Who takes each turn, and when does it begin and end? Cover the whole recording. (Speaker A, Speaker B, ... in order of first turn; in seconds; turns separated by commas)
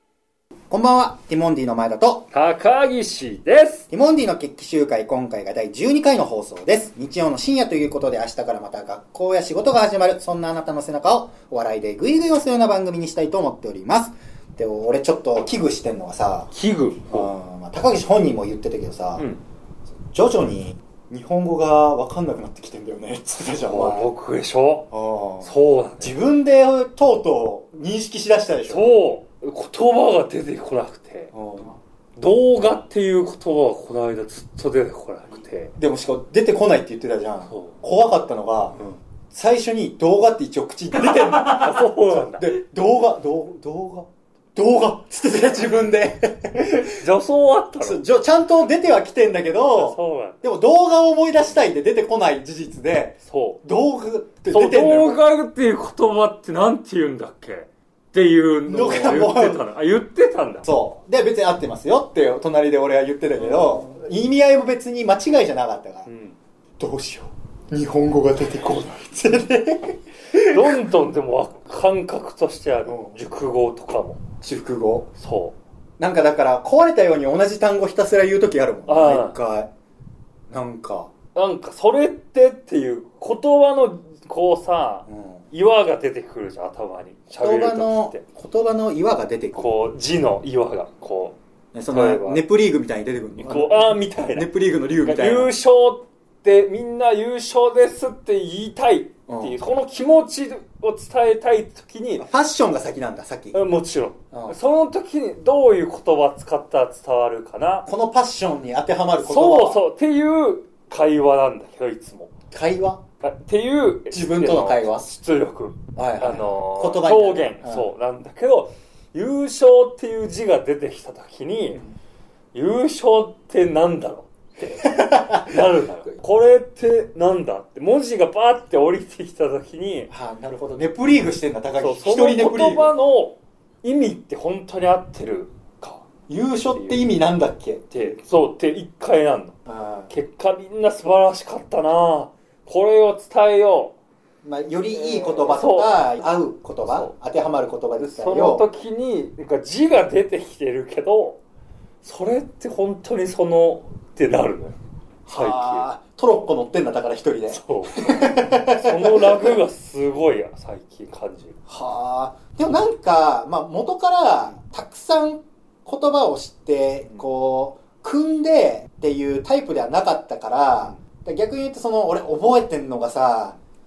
Speaker A: 0.7-2.3, Speaker B: 2.3-3.9, Speaker A: 3.9-16.5, Speaker B: 16.5-17.3, Speaker A: 17.1-19.2, Speaker A: 20.1-24.1, Speaker B: 23.6-26.2, Speaker A: 24.9-29.0, Speaker B: 28.7-31.3, Speaker A: 31.3-31.8, Speaker B: 32.2-35.7, Speaker A: 35.8-38.8, Speaker B: 37.5-37.7, Speaker A: 39.3-47.0, Speaker B: 41.2-42.5, Speaker B: 46.8-48.0, Speaker A: 47.8-55.2, Speaker B: 49.7-50.4, Speaker B: 53.2-53.6, Speaker B: 54.5-60.6, Speaker A: 58.7-59.6, Speaker A: 60.6-66.1, Speaker B: 63.4-63.7, Speaker B: 66.0-66.3, Speaker A: 66.8-70.8, Speaker B: 70.3-74.2, Speaker A: 72.8-73.2, Speaker A: 74.4-75.1, Speaker B: 75.2-75.5, Speaker A: 76.0-79.7, Speaker B: 78.9-79.4, Speaker A: 80.5-81.1, Speaker B: 81.3-88.2, Speaker A: 85.1-85.4, Speaker A: 87.3-89.7, Speaker B: 89.5-91.4, Speaker A: 91.7-95.5, Speaker B: 91.9-92.4, Speaker B: 93.4-94.5, Speaker B: 95.0-102.2, Speaker A: 99.3-99.6, Speaker A: 102.2-103.6, Speaker B: 103.5-107.9, Speaker A: 107.8-109.8, Speaker B: 109.2-112.3, Speaker A: 112.5-113.0, Speaker B: 113.2-121.8, Speaker A: 114.1-115.1, Speaker A: 116.0-117.9, Speaker B: 122.5-130.1, Speaker A: 125.1-125.4, Speaker A: 130.1-132.9, Speaker B: 131.8-136.1, Speaker A: 136.3-137.8, Speaker B: 136.7-137.1, Speaker B: 137.9-139.6, Speaker A: 139.7-140.1, Speaker B: 140.1-143.9, Speaker A: 144.4-148.6, Speaker B: 144.9-146.0, Speaker B: 146.9-147.1, Speaker B: 148.0-151.4, Speaker B: 152.0-154.8, Speaker A: 155.3-159.6, Speaker B: 155.3-155.9, Speaker B: 157.5-161.6, Speaker A: 161.7-173.5